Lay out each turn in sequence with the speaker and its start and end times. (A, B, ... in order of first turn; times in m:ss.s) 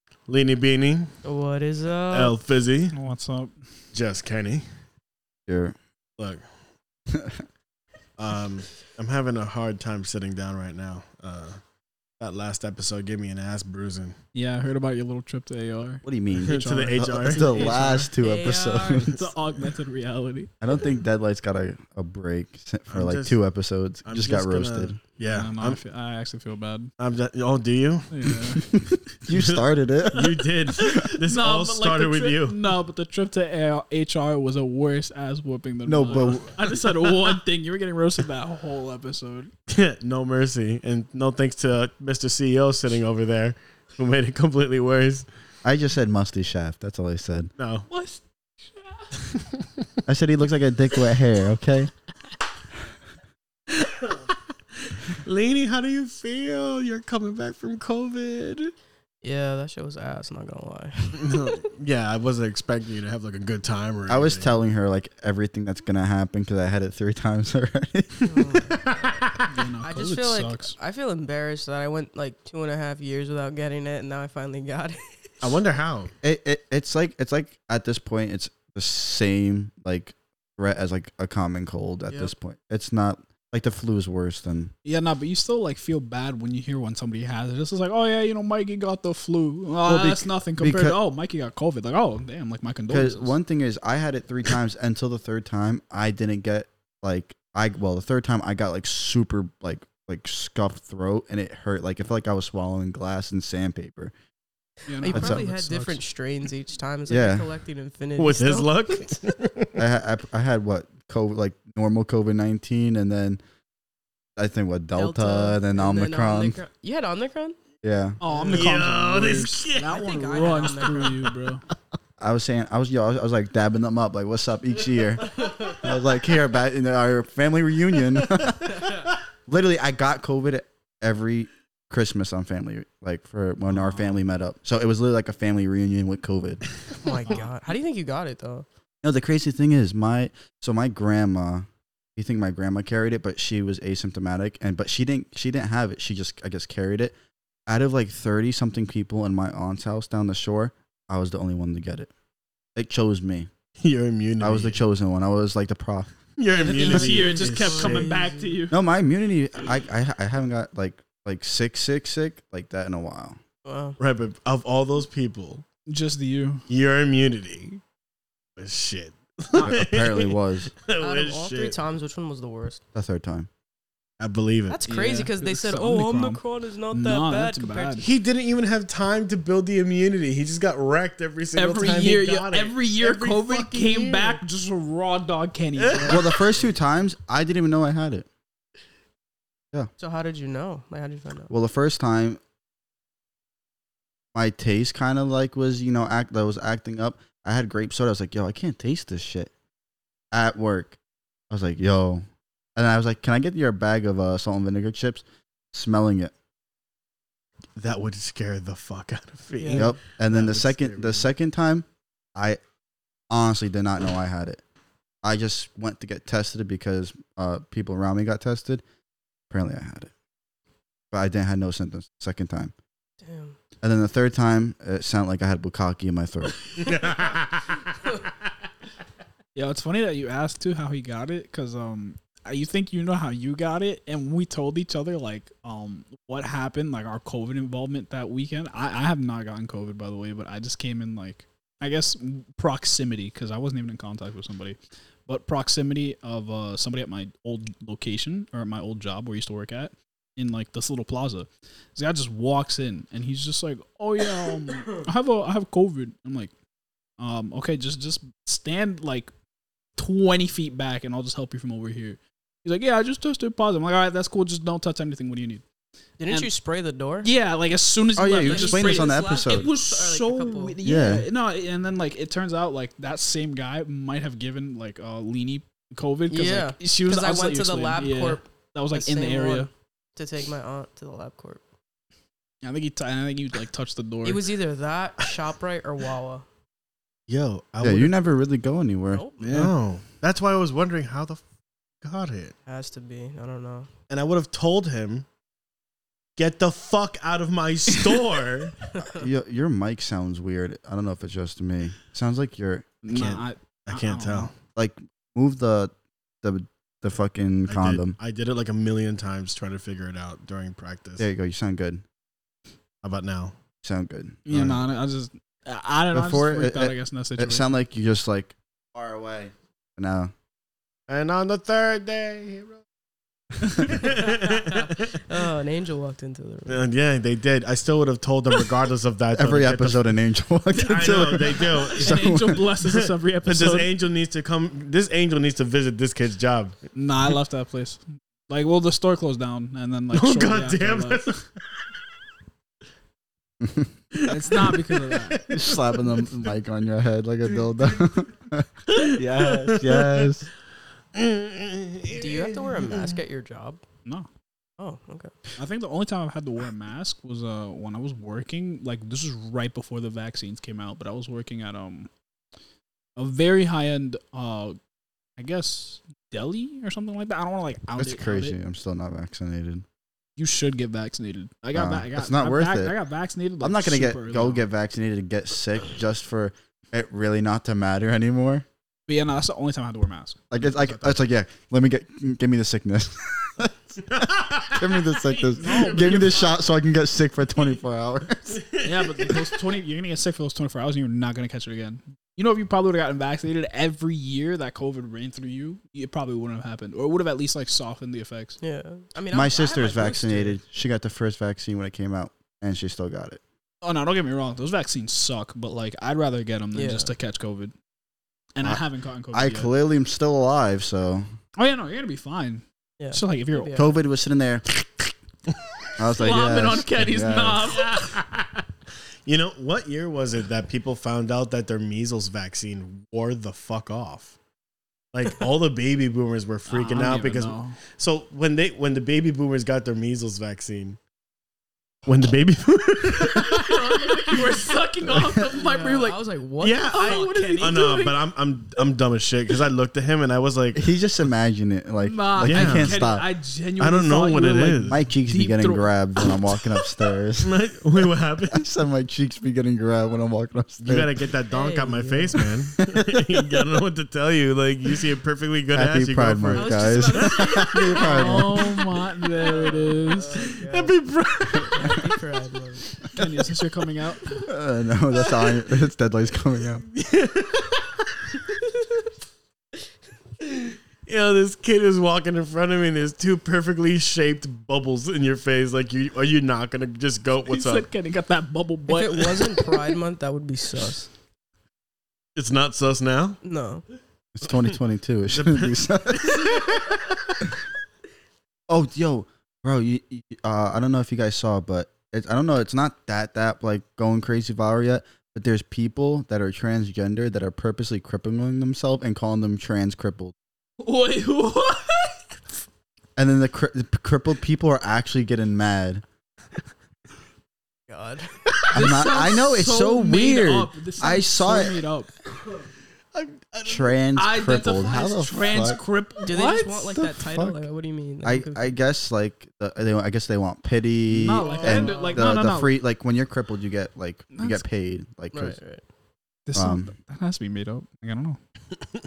0:00.3-0:01.1 A
0:01.2-0:02.4 B
0:02.1-0:02.9 A
0:02.9-0:03.5 C
0:03.9-0:04.6 A
0:05.5-0:05.7 D
0:06.2-0:06.4 A
0:07.1-0:07.4 D
0:08.2-0:11.6 A
0:12.2-0:14.2 A
0:14.3-0:18.1 C
0:16.0-0:19.1 D
0:16.4-0:17.8 A
0:18.2-0:19.1 B
0:19.0-0:20.5 C
0:20.6-0:25.0 D
0:22.9-0:23.4 A
0:24.0-0:25.8 A
0:25.3-0:26.9 C
0:27.0-0:28.3 A
0:28.1-0:28.6 C
0:28.6-0:30.4 D
0:29.3-0:32.6 A
0:30.2-0:39.5 C
0:35.8-0:36.7 D
0:36.1-0:37.4 A
0:39.7-0:45.3 A
0:45.6-0:47.5 D
0:47.6-0:47.9 A
0:47.9-0:49.2 C
0:50.0-0:51.9 D
0:53.7-0:54.3 A
0:54.9-0:58.7 A
0:59.2-1:01.6 B
1:01.1-1:04.5 A
1:04.1-1:08.6 D
1:08.2-1:15.3 B
1:09.1-1:09.4 A
1:09.5-1:10.7 C
1:15.4-1:16.1 A
1:16.2-1:24.7 D
1:24.8-1:33.3 C
1:29.8-1:31.0 D
1:32.9-1:44.1 D
1:44.9-1:46.0 C
1:45.0-1:49.2 B
1:45.1-1:45.4 D
1:47.1-1:47.5 D
1:48.2-1:49.8 A
1:49.8-1:53.4 D
1:54.4-1:56.6 D
1:55.0-1:57.6 B
1:57.8-1:58.2 D
1:58.2-2:01.6 C
1:58.3-1:58.8 B
1:58.5-2:00.1 A
1:59.8-2:01.3 B
2:02.2-2:16.6 D
2:13.7-2:14.2 C
2:17.0-2:18.6 B
2:17.2-2:17.5 C
2:19.0-2:27.2 D
2:27.7-2:32.1 D
2:32.7-2:33.5 D
2:33.8-2:34.8 A
2:34.4-2:36.1 D
2:36.4-2:38.0 A
2:36.6-2:38.8 C
2:37.5-2:38.4 B
2:38.7-2:43.4 D
2:43.6-2:44.0 B
2:44.0-2:45.6 A
2:45.9-2:46.6 C
2:46.7-2:47.8 A
2:48.6-2:51.8 A
2:49.6-2:50.7 D
2:51.0-2:52.8 B
2:52.9-2:53.5 D
2:54.2-2:54.8 A
2:54.7-2:58.0 B
2:54.9-2:58.1 C
2:58.0-3:04.4 A
3:01.5-3:06.5 C
3:05.8-3:06.2 A
3:06.0-3:08.3 D
3:10.0-3:11.5 B
3:11.5-3:12.4 D
3:14.3-3:19.5 D
3:20.3-3:21.0 D
3:21.5-3:26.3 D
3:27.8-3:31.3 A
3:29.6-3:29.9 B
3:29.7-3:32.6 D
3:33.3-3:34.6 D
3:35.2-3:38.8 D
3:39.5-3:40.1 D
3:41.1-3:42.7 D
3:43.2-3:43.6 B
3:43.8-3:46.9 D
3:46.8-3:47.8 A
3:49.5-4:16.5 C
4:17.2-4:19.3 C
4:20.0-4:25.6 C
4:26.2-4:27.3 B
4:27.2-4:39.7 C
4:28.1-4:29.7 D
4:28.4-4:30.8 B
4:30.8-4:31.3 D
4:36.3-4:41.6 B
4:42.6-4:44.4 C
4:44.2-4:46.4 B
4:47.3-4:48.2 A
4:47.8-4:49.2 D
4:49.1-4:49.5 B
4:49.4-4:49.7 C
4:49.4-4:51.4 A
4:52.0-4:52.5 A
4:52.7-4:53.9 B
4:54.1-4:55.2 A
4:56.4-4:58.7 A
4:58.9-4:59.2 B
4:59.0-5:03.0 D
5:03.0-5:04.5 C
5:03.1-5:04.5 A
5:04.7-5:08.2 D
5:07.7-5:11.3 A
5:11.2-5:12.0 D
5:13.0-5:13.5 A
5:13.8-5:14.8 D
5:14.4-5:17.6 C
5:14.5-5:14.8 A
5:16.1-5:20.3 D
5:21.1-5:22.8 A
5:23.7-5:25.2 A
5:24.4-5:26.8 B
5:26.7-5:30.2 A
5:29.3-5:32.7 D
5:30.8-5:32.2 A
5:32.0-5:33.9 C
5:32.8-5:36.8 A
5:36.9-5:41.4 C
5:40.1-5:41.4 A
5:43.6-5:43.9 D
5:44.1-5:46.4 A
5:44.3-5:45.4 C
5:45.5-5:50.5 D
5:48.9-5:50.3 A
5:51.1-5:53.2 A
5:52.1-5:53.8 B
5:54.8-5:55.3 B
5:55.6-6:02.1 C
6:03.2-6:04.8 C
6:05.4-6:08.5 C
6:08.0-6:09.8 D
6:10.4-6:14.6 C
6:11.7-6:13.0 D
6:13.6-6:18.6 D
6:19.1-6:21.2 C
6:20.5-6:28.6 D
6:24.0-6:26.5 A
6:25.6-6:26.5 C
6:28.5-6:29.4 A
6:28.8-6:38.6 C
6:38.6-6:40.6 B
6:39.3-6:43.4 D
6:43.8-6:47.7 C
6:46.7-6:47.1 B
6:48.5-6:49.7 C
6:48.6-6:51.3 D
6:51.6-6:53.9 C
6:53.0-6:53.9 B
6:53.7-6:54.6 D
6:56.0-6:57.7 D
6:56.0-6:58.0 C
6:57.7-6:58.6 A
6:59.2-7:04.4 A
7:05.1-7:11.0 A
7:06.7-7:07.8 C
7:12.0-7:14.5 A
7:13.2-7:16.2 C
7:15.0-7:15.6 D
7:15.5-7:18.1 B
7:16.6-7:20.9 A
7:16.9-7:18.2 C
7:20.7-7:23.2 D
7:22.0-7:26.8 C
7:22.4-7:23.0 A
7:23.8-7:25.0 A
7:24.9-7:27.5 D
7:27.4-7:28.7 A
7:28.5-7:31.1 D
7:30.8-7:37.8 A
7:31.5-7:32.4 B
7:32.8-7:33.2 D
7:35.7-7:38.7 D
7:36.5-7:38.7 B
7:37.9-7:40.6 C
7:39.4-7:41.0 B
7:40.3-7:42.1 A
7:41.5-7:43.0 B
7:43.1-7:44.5 C
7:44.4-7:46.8 D
7:46.9-7:47.9 A
7:50.4-7:57.9 A
7:57.5-7:59.8 C
7:58.9-8:01.1 B
8:02.4-8:03.4 A
8:03.4-8:03.8 B
8:04.3-8:06.8 D
8:05.3-8:07.0 A
8:08.7-8:20.3 D
8:20.8-8:22.2 C
8:23.2-8:26.0 D
8:27.9-8:28.4 B
8:28.6-8:32.1 C
8:28.7-8:31.8 D
8:33.1-8:34.0 A
8:33.6-8:35.8 D
8:34.1-8:37.0 C
8:36.2-8:38.7 B
8:36.9-8:37.6 D
8:38.2-8:45.6 D
8:41.1-8:42.7 C
8:41.4-8:42.3 A
8:44.3-8:44.6 C
8:45.3-8:45.8 B
8:46.4-8:48.4 C
8:46.5-8:46.9 D